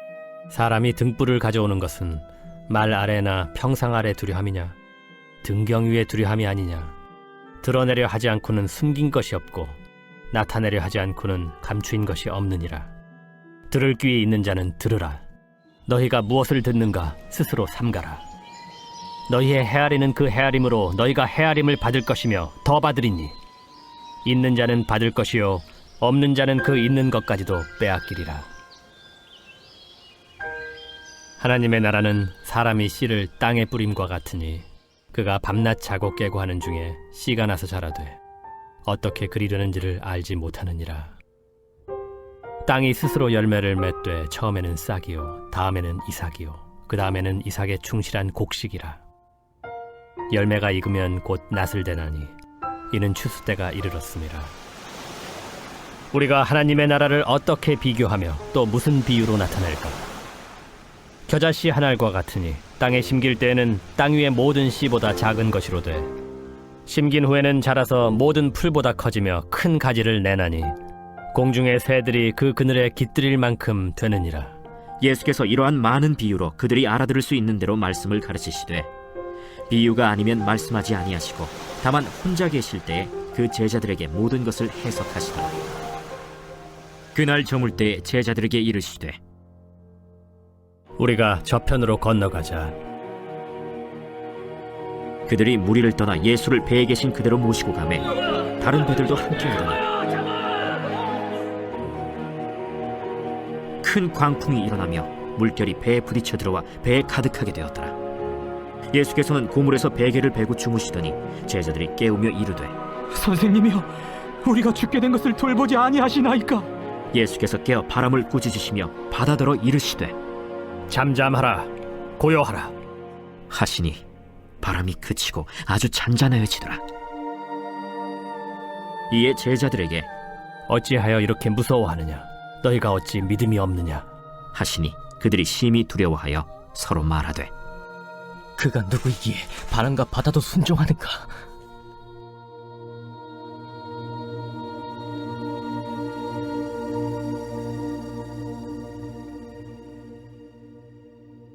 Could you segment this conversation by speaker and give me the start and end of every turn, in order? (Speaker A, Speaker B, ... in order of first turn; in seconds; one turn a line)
Speaker A: 0.5-4.8
Speaker A: 5.4-6.9
Speaker A: 7.6-9.8
Speaker A: 10.3-12.9
Speaker A: 13.7-15.2
Speaker A: 15.8-18.2
Speaker A: 19.3-23.3
Speaker A: 24.2-28.5
Speaker A: 31.4-38.2
Speaker A: 38.8-41.1
Speaker A: 42.6-49.0
Speaker A: 50.3-52.3
Speaker A: 52.9-54.5
Speaker A: 56.1-60.0
Speaker A: 61.3-66.1
Speaker A: 66.8-70.8
Speaker A: 71.3-74.5
Speaker B: 75.0-78.9
Speaker B: 79.7-85.7
Speaker B: 87.1-89.2
Speaker A: 91.0-92.8
Speaker B: 95.3-98.1
Speaker B: 98.6-99.8
Speaker B: 103.8-108.0
Speaker B: 108.9-112.7
Speaker C: 113.2-113.9
Speaker C: 114.5-116.7
Speaker B: 117.1-120.1
Speaker A: 120.9-122.7
Speaker B: 123.5-124.0
Speaker B: 124.6-126.8
Speaker B: 129.1-130.1
Speaker A: 130.7-134.1
Speaker B: 134.5-137.5
Speaker C: 138.9-140.0